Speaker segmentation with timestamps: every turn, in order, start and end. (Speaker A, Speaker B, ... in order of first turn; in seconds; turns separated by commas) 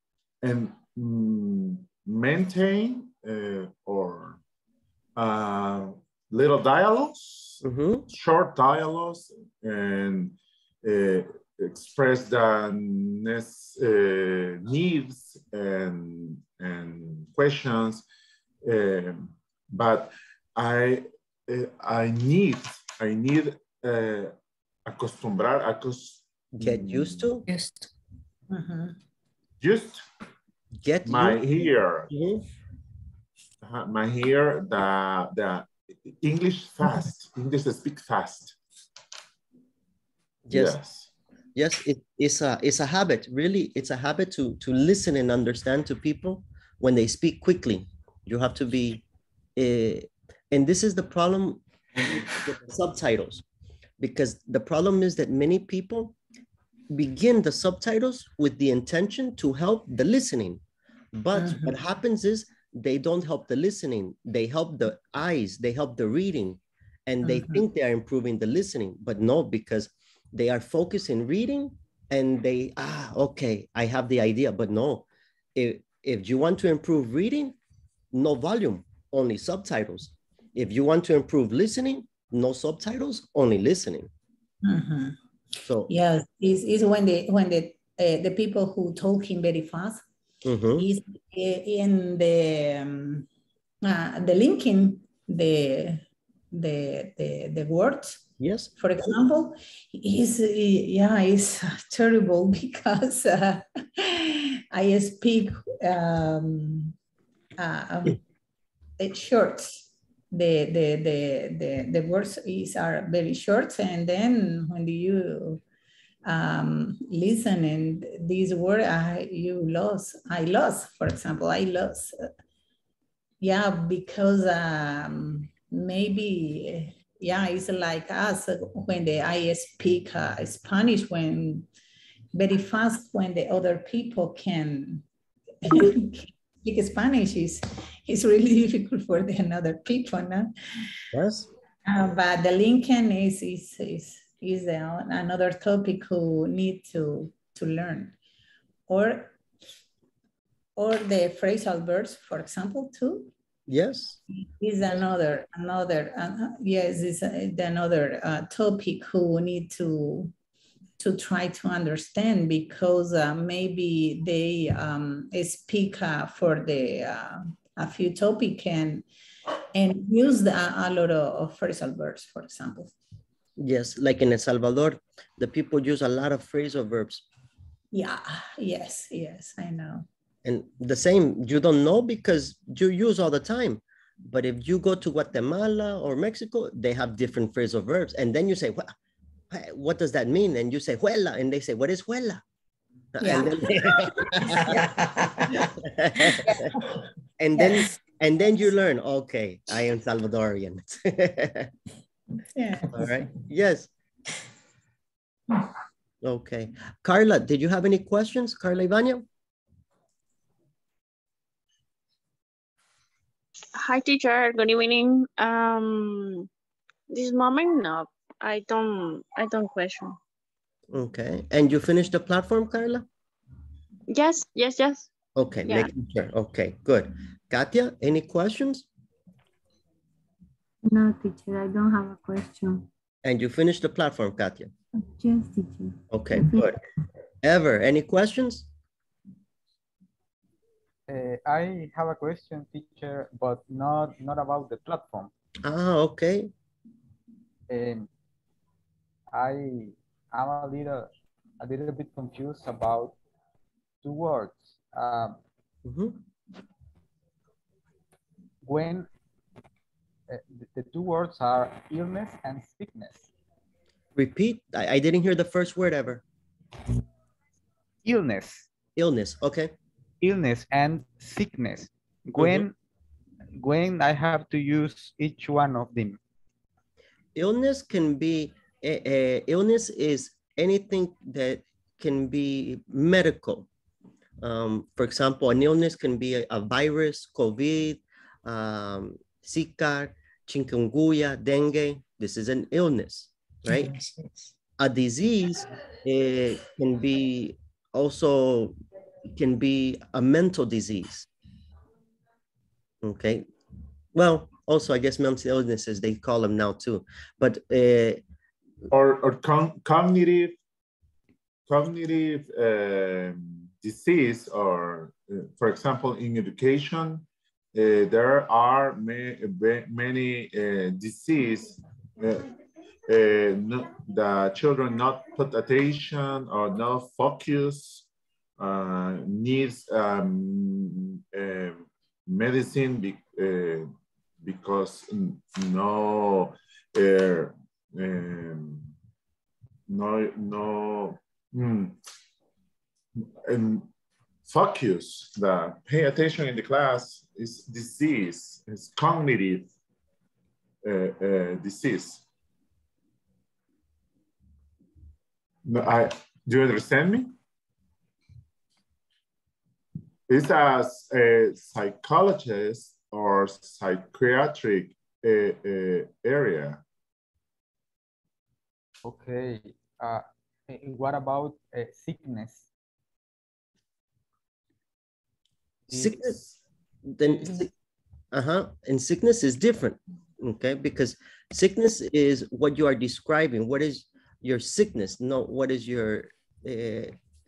Speaker A: 0.4-4.4, Speaker A: 5.2-18.0, Speaker B: 7.6-8.1, Speaker A: 18.6-24.3, Speaker A: 24.9-27.3, Speaker B: 26.6-27.4, Speaker C: 27.5-27.9, Speaker D: 28.5-29.0, Speaker A: 29.6-30.0, Speaker B: 30.8-32.4, Speaker A: 31.1-32.1, Speaker A: 33.6-38.6, Speaker B: 40.5-40.8, Speaker A: 40.5-41.1, Speaker B: 41.5-49.0, Speaker B: 49.6-53.4, Speaker B: 54.0-56.1, Speaker B: 56.9-60.6, Speaker B: 61.1-75.0, Speaker D: 61.4-61.8, Speaker D: 67.2-67.7, Speaker B: 75.6-77.5, Speaker B: 78.1-84.1, Speaker D: 84.6-85.2, Speaker B: 85.7-85.9, Speaker D: 85.9-90.0, Speaker B: 90.4-90.9, Speaker D: 90.8-93.3, Speaker D: 93.8-98.2, Speaker B: 98.4-99.2, Speaker D: 98.8-106.9, Speaker D: 107.6-108.2, Speaker D: 109.0-115.6, Speaker D: 116.3-122.2, Speaker D: 123.4-131.7, Speaker D: 132.3-135.1, Speaker D: 135.7-140.5, Speaker B: 141.1-141.5, Speaker D: 141.9-148.2, Speaker D: 148.9-149.4, Speaker D: 150.8-153.3, Speaker B: 153.7-154.2, Speaker D: 154.4-160.3, Speaker D: 161.0-169.1, Speaker D: 169.8-172.9, Speaker B: 173.6-177.2, Speaker D: 177.9-180.1, Speaker B: 180.4-188.9, Speaker B: 189.5-192.4, Speaker B: 193.2-194.9, Speaker D: 193.2-193.9, Speaker C: 194.6-195.7, Speaker B: 195.5-196.7, Speaker D: 196.4-196.8, Speaker B: 197.4-201.7, Speaker D: 202.5-203.1, Speaker B: 202.9-203.9, Speaker B: 206.2-209.3, Speaker E: 213.8-216.5, Speaker E: 217.1-220.2, Speaker B: 220.9-223.1, Speaker E: 224.1-225.1, Speaker B: 225.4-228.9, Speaker E: 225.7-225.9, Speaker F: 230.8-232.9, Speaker B: 233.2-234.7, Speaker F: 235.1-236.7, Speaker B: 236.1-236.8, Speaker B: 237.4-238.7, Speaker G: 241.1-245.3, Speaker B: 245.6-246.5, Speaker G: 247.7-248.1, Speaker G: 249.3-253.2, Speaker G: 254.0-255.4, Speaker B: 255.8-256.2, Speaker G: 258.6-259.1, Speaker G: 260.3-263.3, Speaker B: 264.1-266.2, Speaker G: 268.0-268.7, Speaker B: 269.0-269.7, Speaker G: 270.2-272.7, Speaker B: 272.4-272.6, Speaker G: 273.6-276.2, Speaker B: 277.4-283.7, Speaker B: 284.4-293.9, Speaker C: 293.7-294.5, Speaker B: 294.8-301.3, Speaker B: 303.0-303.5, Speaker B: 304.1-308.2, Speaker A: 308.9-310.6, Speaker A: 311.7-322.5, Speaker A: 323.1-328.1, Speaker A: 328.6-333.9, Speaker A: 334.4-338.9, Speaker A: 339.9-342.0, Speaker A: 343.2-343.9, Speaker A: 344.4-349.7, Speaker A: 350.8-352.2, Speaker A: 355.6-357.4, Speaker A: 360.3-366.8, Speaker G: 369.0-372.7, Speaker B: 375.9-376.4, Speaker G: 375.9-376.6, Speaker B: 377.1-377.7, Speaker G: 377.2-377.6, Speaker B: 378.3-387.1